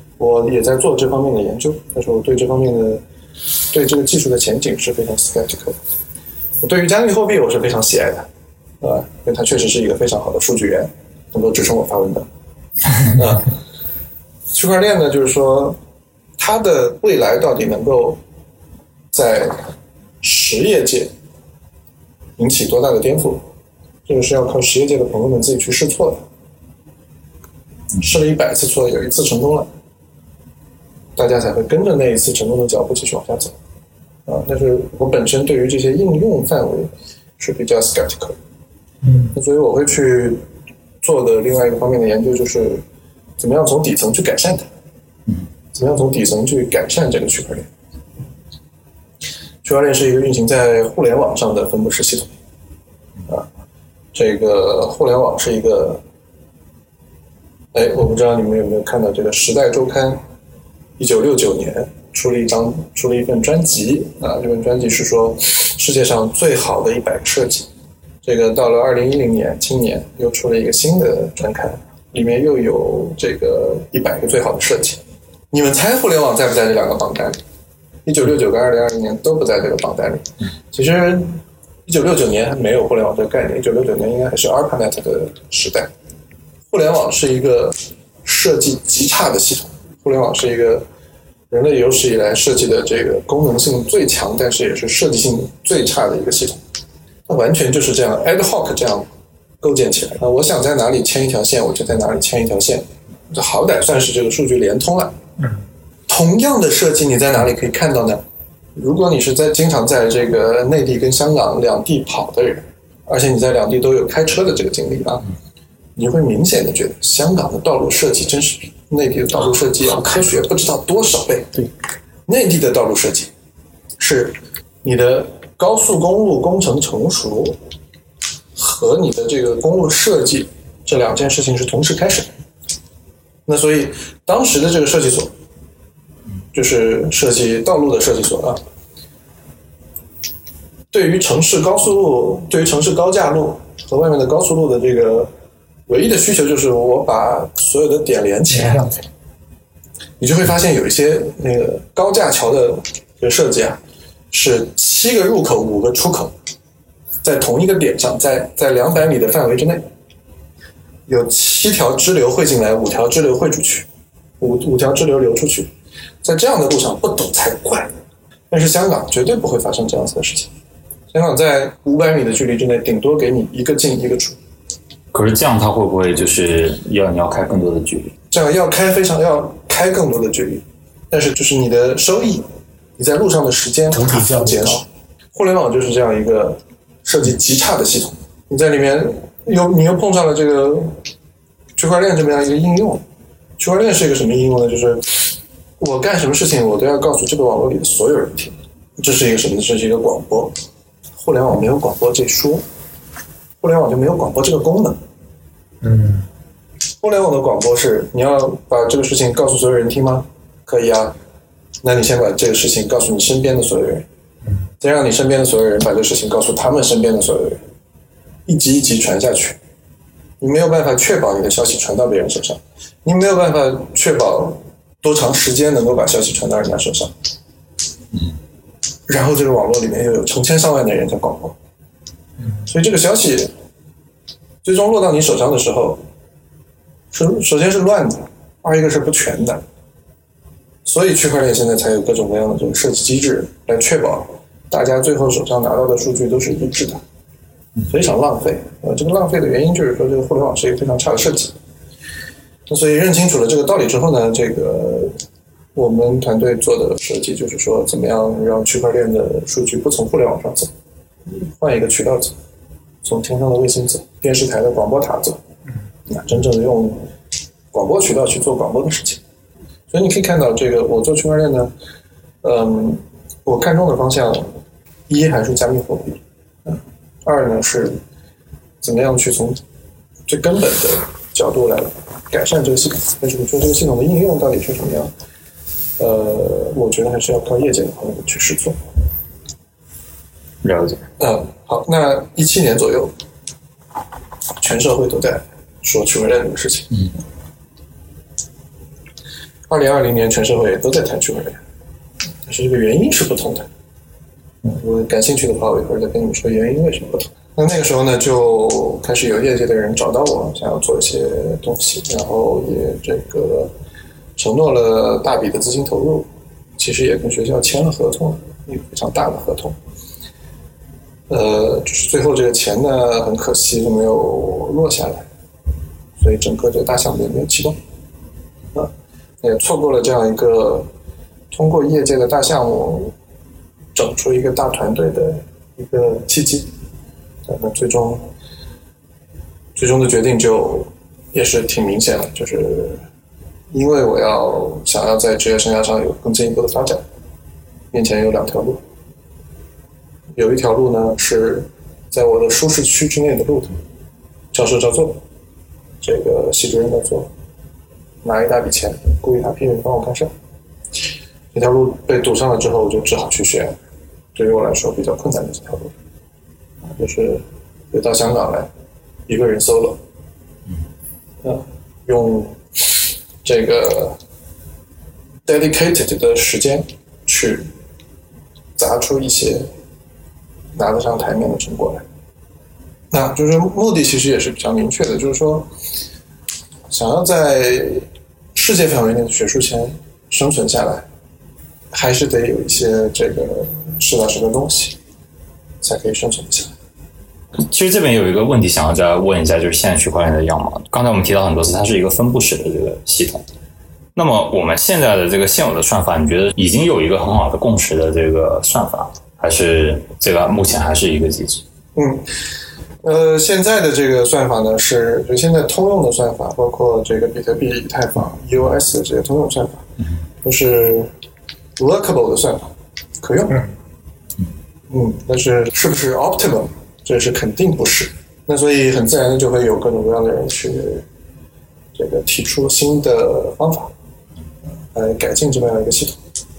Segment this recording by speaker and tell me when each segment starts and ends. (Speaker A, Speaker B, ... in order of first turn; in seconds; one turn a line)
Speaker A: 0.2-3.0
Speaker A: 3.7-5.8
Speaker A: 6.6-8.3
Speaker A: 8.8-12.3
Speaker A: 13.1-13.5
Speaker A: 14.5-15.8
Speaker A: 16.4-18.2
Speaker A: 19.1-19.7
Speaker A: 20.2-21.1
Speaker A: 22.4-23.4
Speaker A: 24.1-26.2
Speaker A: 28.0-29.7
Speaker A: 31.1-33.5
Speaker A: 34.3-38.4
Speaker B: 39.0-39.3
Speaker A: 39.3-40.4
Speaker A: 41.0-42.8
Speaker A: 43.4-44.7
Speaker A: 45.7-47.7
Speaker A: 49.6-52.3
Speaker A: 54.1-56.0
Speaker A: 57.7-60.2
Speaker A: 61.0-67.7
Speaker A: 68.2-77.4
Speaker A: 78.0-85.9
Speaker A: 86.7-90.8
Speaker A: 91.5-96.6
Speaker A: 97.3-99.1
Speaker A: 99.6-105.1
Speaker A: 106.1-108.2
Speaker A: 108.8-115.2
Speaker A: 116.0-121.6
Speaker B: 119.9-120.2
Speaker A: 122.3-123.3
Speaker A: 124.0-127.6
Speaker A: 128.6-132.3
Speaker A: 133.4-135.3
Speaker A: 136.5-138.6
Speaker A: 140.9-145.3
Speaker A: 145.9-148.8
Speaker B: 148.5-149.0
Speaker A: 150.2-153.8
Speaker A: 154.3-156.3
Speaker A: 157.2-159.8
Speaker A: 161.1-163.9
Speaker A: 164.4-165.7
Speaker A: 166.2-167.9
Speaker A: 168.5-170.5
Speaker A: 171.1-174.4
Speaker C: 175.1-178.1
Speaker A: 178.3-182.4
Speaker A: 183.0-191.0
Speaker B: 183.9-184.8
Speaker A: 191.8-193.0
Speaker A: 193.6-200.5
Speaker A: 201.2-202.6
Speaker A: 203.6-205.0
Speaker B: 205.8-206.3
Speaker A: 207.0-211.2
Speaker A: 211.8-214.1
Speaker A: 214.8-217.6
Speaker A: 218.4-219.6
Speaker A: 220.4-227.1
Speaker A: 229.1-231.6
Speaker A: 232.7-233.5
Speaker A: 234.6-236.0
Speaker A: 237.1-239.6
Speaker A: 240.8-247.0
Speaker A: 247.9-251.6
Speaker A: 252.7-255.1
Speaker A: 255.7-260.7
Speaker A: 261.3-262.4
Speaker A: 263.0-265.4
Speaker A: 266.1-267.1
Speaker A: 267.7-269.2
Speaker A: 269.9-271.7
Speaker A: 272.4-274.6
Speaker A: 275.1-278.0
Speaker A: 278.8-279.6
Speaker A: 280.3-285.1
Speaker A: 286.0-288.8
Speaker C: 290.6-291.0
Speaker A: 291.2-293.1
Speaker A: 294.6-296.9
Speaker A: 299.7-301.6
Speaker A: 302.4-303.7
Speaker A: 304.6-313.7
Speaker A: 314.4-319.8
Speaker A: 321.3-325.3
Speaker A: 326.2-327.8
Speaker A: 329.4-330.9
Speaker A: 331.5-333.1
Speaker A: 333.9-336.7
Speaker A: 337.4-338.3
Speaker A: 339.8-343.0
Speaker A: 343.7-347.0
Speaker A: 347.9-348.8
Speaker A: 350.3-353.7
Speaker A: 354.5-355.2
Speaker A: 356.0-357.3
Speaker A: 358.2-360.3
Speaker A: 361.5-363.8
Speaker A: 364.3-365.9
Speaker A: 366.8-368.7
Speaker A: 369.3-370.0
Speaker A: 371.4-374.2
Speaker A: 375.4-377.7
Speaker A: 378.8-379.7
Speaker A: 380.7-382.0
Speaker A: 383.1-385.7
Speaker A: 386.9-391.1
Speaker A: 391.9-395.0
Speaker A: 395.8-396.7
Speaker C: 397.6-403.4
Speaker C: 404.1-411.6
Speaker A: 411.9-412.2
Speaker A: 413.0-419.8
Speaker A: 420.4-421.1
Speaker A: 421.8-423.6
Speaker A: 424.9-431.1
Speaker A: 431.9-433.9
Speaker A: 434.9-436.2